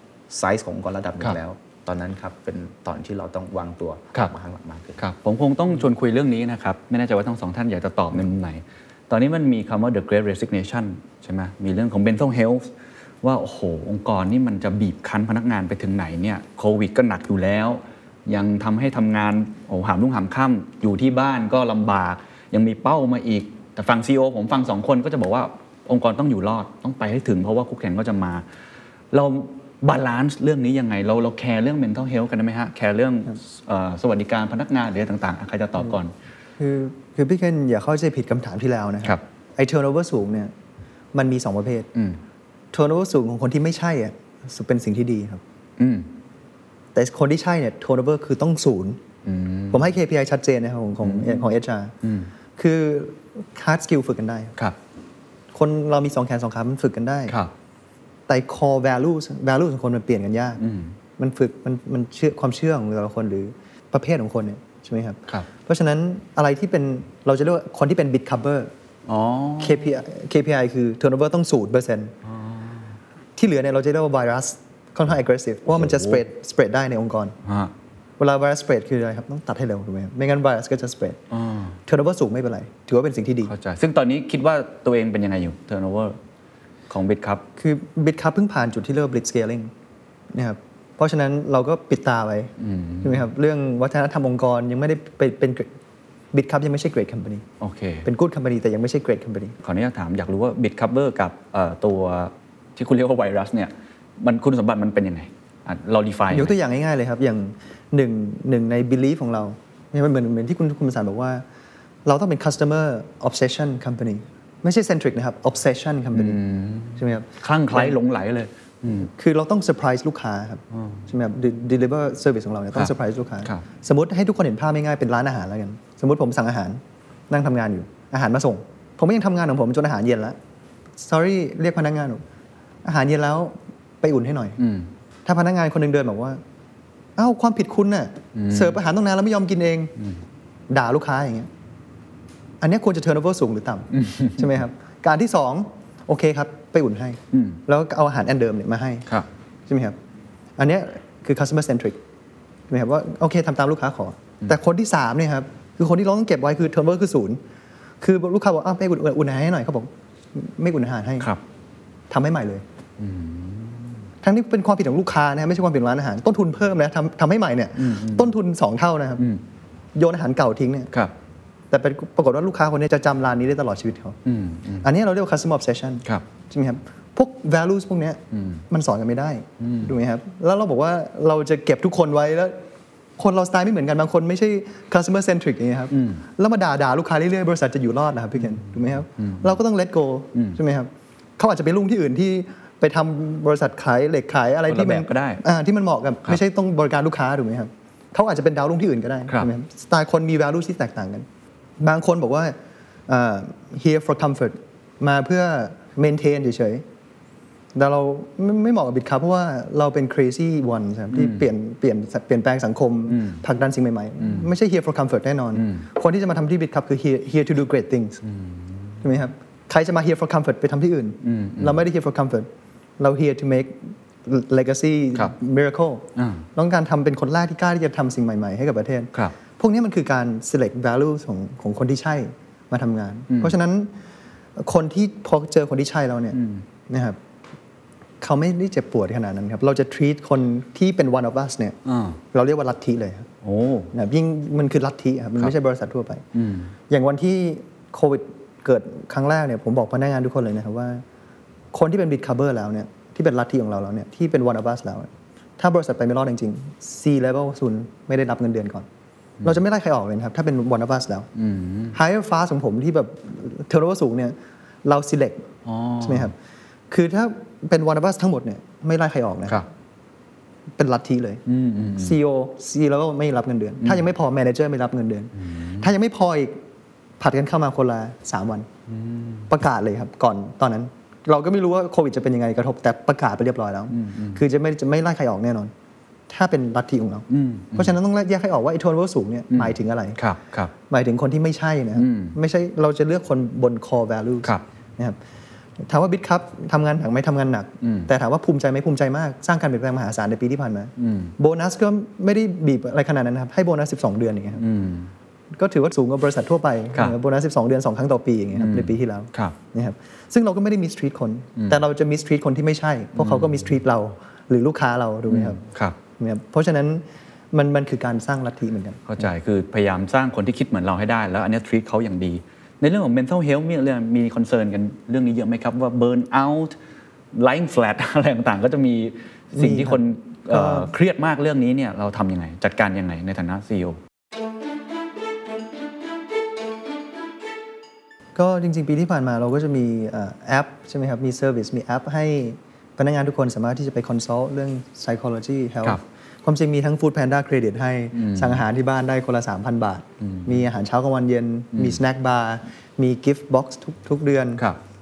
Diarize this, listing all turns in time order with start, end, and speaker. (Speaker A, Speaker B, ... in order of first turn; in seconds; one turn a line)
Speaker A: 0.3-5.0
Speaker B: 5.0-12.7
Speaker B: 13.2-28.4
Speaker B: 29.1-36.1
Speaker C: 36.6-40.5
Speaker C: 41.1-41.9
Speaker C: 42.7-45.4
Speaker B: 45.8-46.1
Speaker C: 46.9-49.0
Speaker B: 49.2-49.9
Speaker C: 49.7-51.9
Speaker B: 51.0-51.5
Speaker B: 52.0-52.3
Speaker C: 52.6-54.5
Speaker C: 55.5-57.4
Speaker C: 58.3-60.6
Speaker B: 60.6-60.9
Speaker C: 61.2-68.7
Speaker B: 69.1-69.9
Speaker C: 69.6-72.1
Speaker B: 72.3-72.9
Speaker C: 73.4-77.4
Speaker B: 75.7-76.2
Speaker B: 77.4-77.7
Speaker C: 78.2-81.2
Speaker B: 81.3-81.8
Speaker C: 81.9-83.5
Speaker B: 83.5-86.2
Speaker B: 86.9-87.5
Speaker C: 87.6-89.7
Speaker C: 90.3-92.5
Speaker B: 92.6-93.2
Speaker C: 93.0-95.7
Speaker C: 96.3-97.5
Speaker B: 97.6-98.1
Speaker C: 98.0-99.6
Speaker B: 99.6-106.5
Speaker C: 106.3-111.4
Speaker C: 112.0-116.4
Speaker B: 116.1-119.1
Speaker C: 117.0-118.0
Speaker C: 119.1-130.4
Speaker B: 120.7-121.0
Speaker C: 131.0-132.2
Speaker C: 132.8-134.6
Speaker B: 134.6-134.9
Speaker C: 135.3-136.4
Speaker C: 137.2-139.9
Speaker B: 138.3-138.8
Speaker C: 140.7-141.5
Speaker C: 142.6-149.1
Speaker B: 143.9-144.4
Speaker B: 147.3-147.6
Speaker C: 149.7-150.0
Speaker C: 150.6-152.0
Speaker C: 152.7-157.4
Speaker C: 158.0-161.3
Speaker C: 162.1-162.7
Speaker B: 163.0-164.1
Speaker C: 164.2-169.2
Speaker B: 167.8-168.3
Speaker C: 169.9-170.9
Speaker C: 171.7-174.2
Speaker B: 174.2-174.9
Speaker C: 174.8-182.6
Speaker B: 178.3-178.6
Speaker B: 179.6-179.9
Speaker C: 183.2-201.3
Speaker B: 185.9-186.2
Speaker B: 189.2-189.6
Speaker B: 190.3-190.6
Speaker B: 194.7-195.4
Speaker C: 201.8-202.6
Speaker C: 203.1-206.8
Speaker C: 207.8-218.2
Speaker B: 211.1-211.5
Speaker B: 213.1-213.4
Speaker B: 214.2-214.5
Speaker B: 215.5-215.9
Speaker B: 218.2-219.0
Speaker C: 219.0-233.9
Speaker B: 221.2-221.8
Speaker B: 226.2-226.5
Speaker B: 233.3-233.6
Speaker C: 234.6-236.4
Speaker B: 236.3-236.6
Speaker C: 236.9-237.2
Speaker C: 238.2-241.8
Speaker B: 241.8-242.2
Speaker C: 242.3-243.3
Speaker B: 243.4-243.9
Speaker C: 243.9-246.2
Speaker B: 246.3-246.7
Speaker C: 246.9-251.0
Speaker C: 251.7-258.9
Speaker C: 259.4-261.3
Speaker B: 261.4-262.0
Speaker C: 261.9-265.5
Speaker B: 265.6-266.3
Speaker C: 266.0-266.4
Speaker C: 266.9-269.6
Speaker C: 270.8-271.4
Speaker B: 271.5-272.2
Speaker C: 272.0-276.6
Speaker B: 275.4-275.9
Speaker C: 277.2-278.7
Speaker B: 278.9-279.5
Speaker C: 279.5-285.7
Speaker B: 283.9-284.4
Speaker C: 286.3-290.2
Speaker B: 287.3-287.9
Speaker B: 289.5-290.7
Speaker C: 290.9-295.2
Speaker B: 291.9-292.4
Speaker C: 295.8-304.6
Speaker B: 297.8-298.1
Speaker B: 301.0-301.3
Speaker B: 304.6-305.1
Speaker C: 305.5-315.6
Speaker B: 308.6-309.6
Speaker B: 313.2-313.7
Speaker B: 315.3-316.0
Speaker C: 316.2-319.1
Speaker B: 319.1-326.8
Speaker B: 327.3-334.0
Speaker C: 329.5-330.9
Speaker C: 338.4-354.6
Speaker B: 348.1-348.6
Speaker B: 350.2-350.6
Speaker B: 351.7-352.0